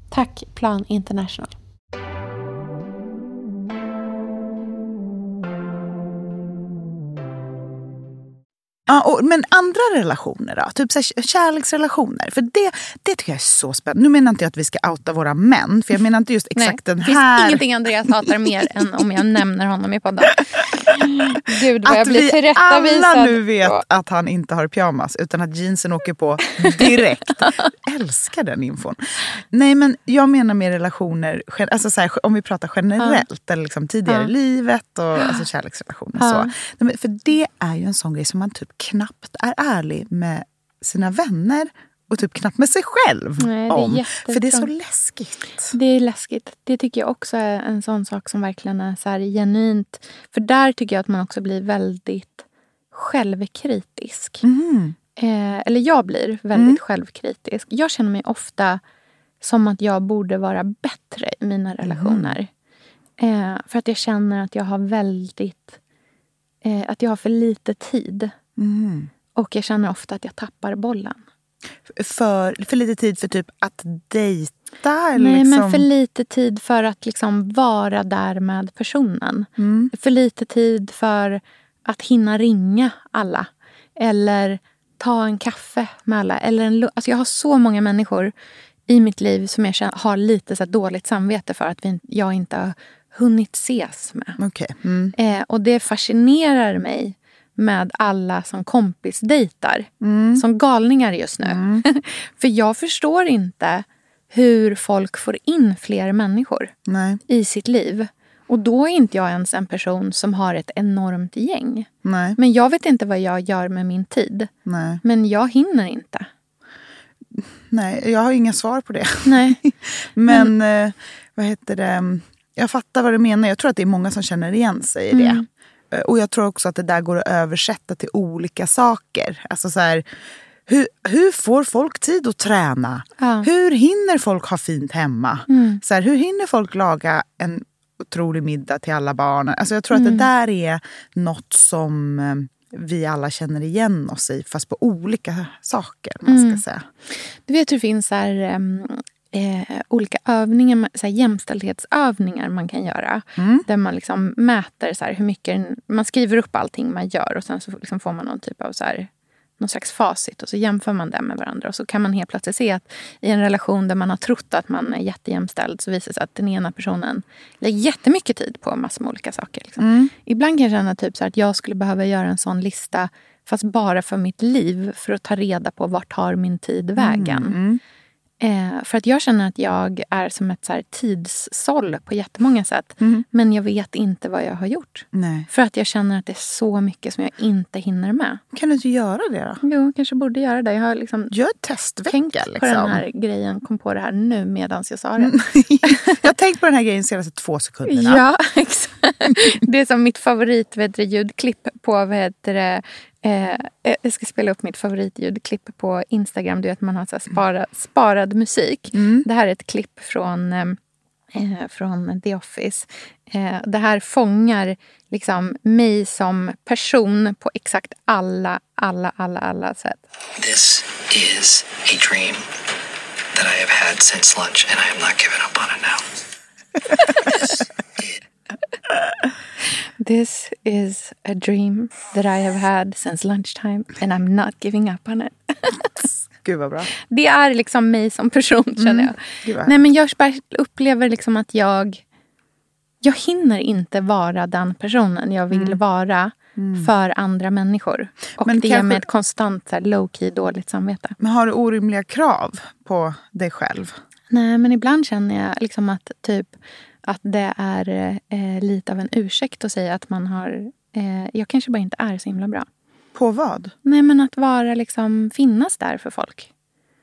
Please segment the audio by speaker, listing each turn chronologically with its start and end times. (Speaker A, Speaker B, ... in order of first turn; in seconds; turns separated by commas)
Speaker A: 0.1-1.5, Speaker B: 8.9-19.0, Speaker A: 16.6-23.8, Speaker B: 21.8-45.7, Speaker A: 26.6-27.7, Speaker A: 33.0-33.2, Speaker A: 36.2-36.5, Speaker A: 43.4-44.7, Speaker A: 45.7-54.4, Speaker B: 54.4-55.0, Speaker A: 55.2-58.8, Speaker B: 56.5-56.8, Speaker A: 59.4-62.5, Speaker B: 61.9-62.4, Speaker A: 63.2-65.8, Speaker A: 66.6-68.3, Speaker B: 68.6-69.1, Speaker A: 69.3-71.2, Speaker B: 71.9-75.9, Speaker A: 75.2-88.3, Speaker B: 79.6-79.9, Speaker A: 88.9-94.4, Speaker B: 94.4-95.1, Speaker A: 95.2-106.7, Speaker B: 100.0-100.4, Speaker B: 101.4-101.8, Speaker B: 106.9-107.2, Speaker A: 107.3-114.5, Speaker B: 112.0-112.4, Speaker B: 114.7-115.0, Speaker A: 115.0-116.3, Speaker B: 117.3-130.0, Speaker A: 119.2-119.6, Speaker A: 120.3-120.5, Speaker A: 125.1-125.4, Speaker B: 130.7-146.8, Speaker A: 133.2-133.5, Speaker A: 135.5-135.8, Speaker A: 139.9-140.3, Speaker A: 146.2-159.1, Speaker B: 153.4-153.6, Speaker A: 159.6-177.6, Speaker B: 169.8-170.1, Speaker B: 177.0-177.8, Speaker A: 178.4-188.4, Speaker B: 185.1-185.5, Speaker B: 188.5-189.6, Speaker A: 189.6-191.3, Speaker B: 191.3-193.0, Speaker A: 192.1-196.2, Speaker B: 195.2-198.2, Speaker A: 197.9-210.8, Speaker B: 208.9-209.2, Speaker A: 211.3-220.0, Speaker C: 220.4-222.4, Speaker C: 223.3-226.1, Speaker A: 230.0-235.8, Speaker B: 236.0-236.9, Speaker A: 237.1-242.0, Speaker B: 238.8-239.9, Speaker A: 243.0-251.2, Speaker B: 245.5-245.8, Speaker B: 246.6-246.9, Speaker B: 248.4-249.0, Speaker B: 251.2-254.0, Speaker A: 254.3-262.7, Speaker B: 263.1-263.7, Speaker A: 263.9-266.5